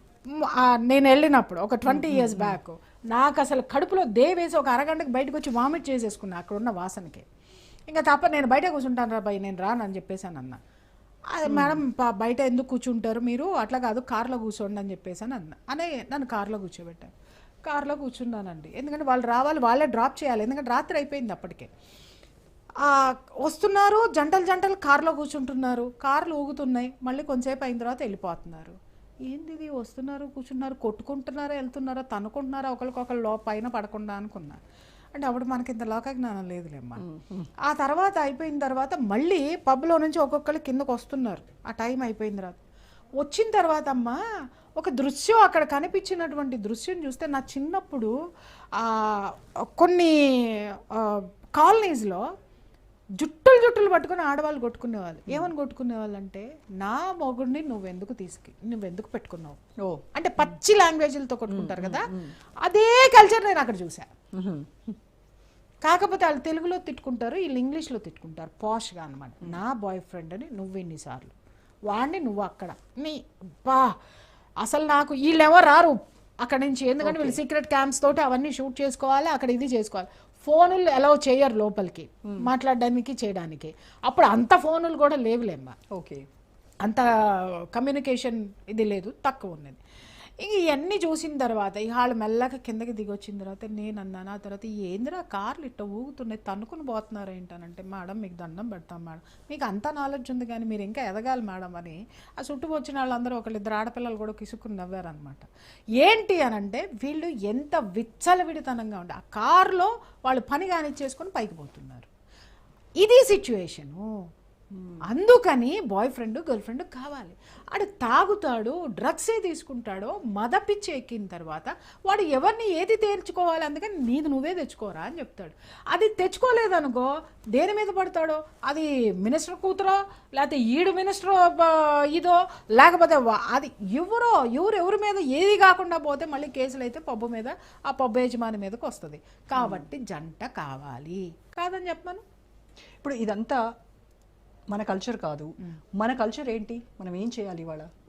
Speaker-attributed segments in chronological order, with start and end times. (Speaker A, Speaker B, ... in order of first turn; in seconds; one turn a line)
Speaker A: 0.3-7.3
Speaker B: 1.9-2.6
Speaker A: 7.9-10.6
Speaker A: 11.3-17.1
Speaker B: 11.5-11.8
Speaker A: 17.7-21.7
Speaker A: 22.8-28.8
Speaker A: 29.3-34.6
Speaker A: 35.1-37.0
Speaker B: 37.0-37.5
Speaker A: 37.6-42.6
Speaker A: 43.2-44.2
Speaker A: 44.8-48.1
Speaker A: 48.8-52.3
Speaker A: 53.2-59.6
Speaker A: 60.1-62.1
Speaker B: 61.5-62.3
Speaker A: 62.6-64.1
Speaker B: 64.3-65.0
Speaker A: 65.8-71.3
Speaker A: 71.9-74.0
Speaker A: 74.6-85.8
Speaker B: 77.0-77.4
Speaker B: 85.9-86.2
Speaker A: 86.8-89.8
Speaker A: 90.4-105.5
Speaker A: 106.0-112.1
Speaker A: 113.0-114.0
Speaker A: 115.0-142.2
Speaker B: 139.6-139.9
Speaker B: 143.0-143.6
Speaker B: 144.7-147.9